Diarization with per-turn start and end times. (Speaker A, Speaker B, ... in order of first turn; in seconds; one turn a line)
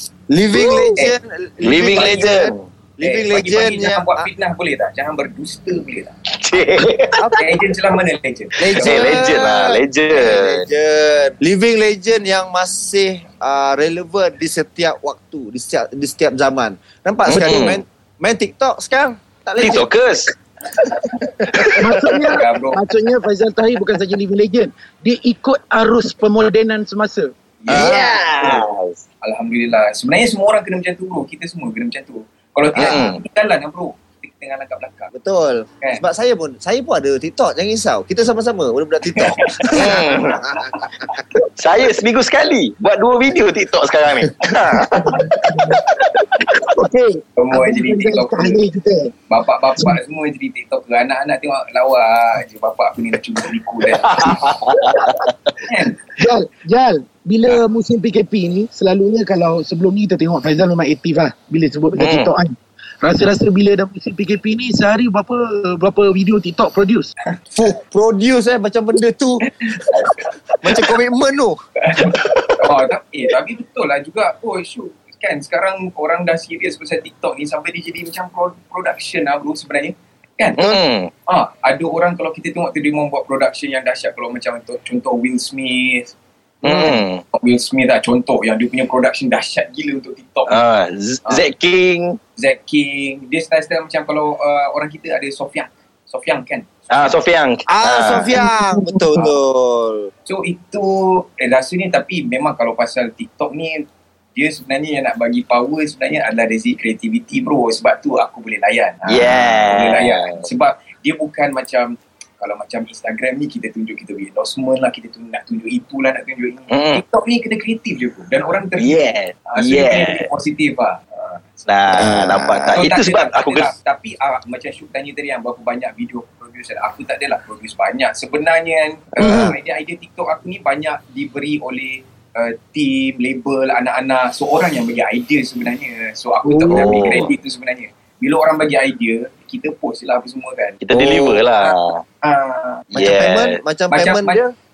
Speaker A: 0.3-4.3
Speaker B: 1.6-2.5
Speaker C: 3.0-6.2
Speaker B: 6.4-7.2
Speaker C: 7.3-9.3
Speaker A: 8.6-19.9
Speaker B: 8.8-10.7
Speaker B: 17.3-17.8
Speaker B: 19.6-20.3
Speaker A: 21.0-22.3
Speaker D: 21.8-27.3
Speaker C: 22.3-22.8
Speaker C: 27.6-28.0
Speaker B: 27.7-29.0
Speaker A: 27.7-28.7
Speaker C: 29.2-35.1
Speaker B: 32.8-33.2
Speaker A: 35.1-41.0
Speaker C: 39.1-40.8
Speaker B: 39.7-40.5
Speaker B: 41.6-45.1
Speaker A: 44.8-45.2
Speaker D: 44.9-45.8
Speaker D: 46.4-49.1
Speaker C: 47.4-48.6
Speaker C: 49.3-54.5
Speaker B: 54.0-55.3
Speaker D: 54.7-55.3
Speaker C: 55.6-56.0
Speaker D: 56.2-67.1
Speaker B: 62.0-62.3
Speaker A: 67.5-69.4
Speaker C: 69.5-70.9
Speaker A: 70.6-71.6
Speaker C: 71.8-90.6
Speaker B: 80.6-81.1
Speaker B: 86.6-87.2
Speaker B: 90.5-92.2
Speaker C: 92.4-97.2
Speaker B: 96.9-98.4
Speaker A: 97.7-100.1
Speaker D: 98.4-99.2
Speaker C: 100.3-121.7
Speaker B: 109.1-110.5
Speaker B: 116.7-117.0
Speaker B: 118.8-120.3
Speaker B: 121.7-123.7
Speaker A: 121.9-122.8
Speaker C: 122.7-140.8
Speaker D: 129.2-129.6
Speaker B: 136.7-137.3
Speaker B: 140.8-142.0
Speaker A: 140.9-141.4
Speaker C: 141.6-142.9
Speaker A: 142.9-144.5
Speaker B: 142.9-143.6
Speaker C: 143.9-144.4